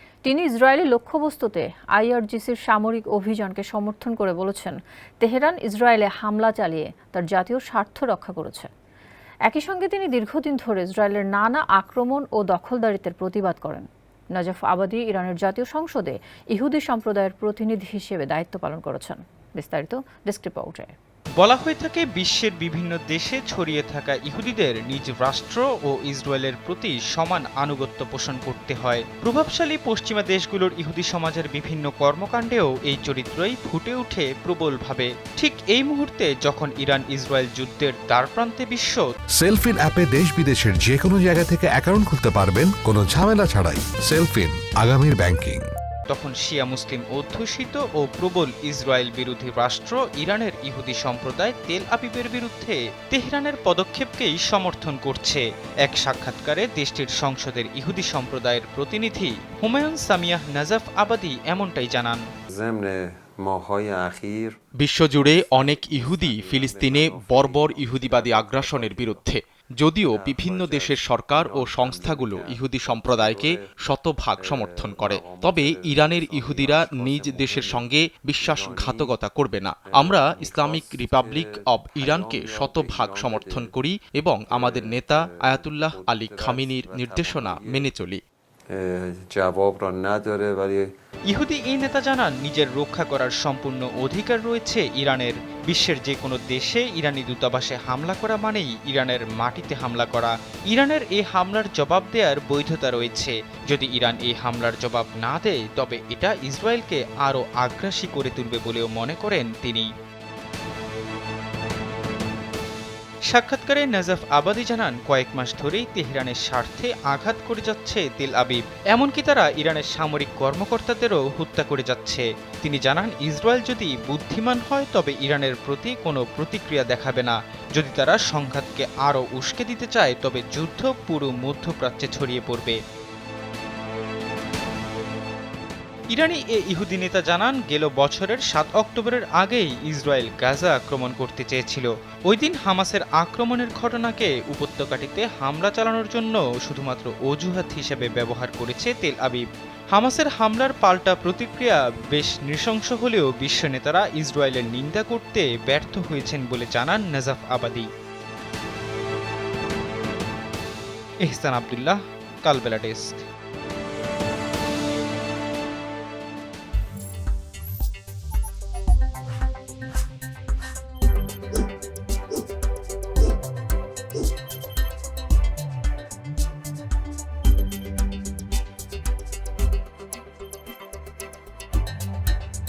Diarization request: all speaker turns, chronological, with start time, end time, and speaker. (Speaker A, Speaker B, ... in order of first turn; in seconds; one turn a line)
Speaker A: 0.2-8.7
Speaker A: 9.5-20.9
Speaker B: 21.4-39.0
Speaker C: 39.4-45.7
Speaker B: 46.1-62.2
Speaker D: 62.5-64.5
Speaker E: 64.8-88.2
Speaker D: 65.1-69.3
Speaker D: 70.1-73.5
Speaker D: 74.4-79.2
Speaker D: 79.9-83.8
Speaker D: 84.5-87.9
Speaker D: 88.7-90.9
Speaker B: 91.3-109.9
Speaker B: 113.3-132.8
Speaker B: 136.1-157.9
Speaker B: 161.2-163.2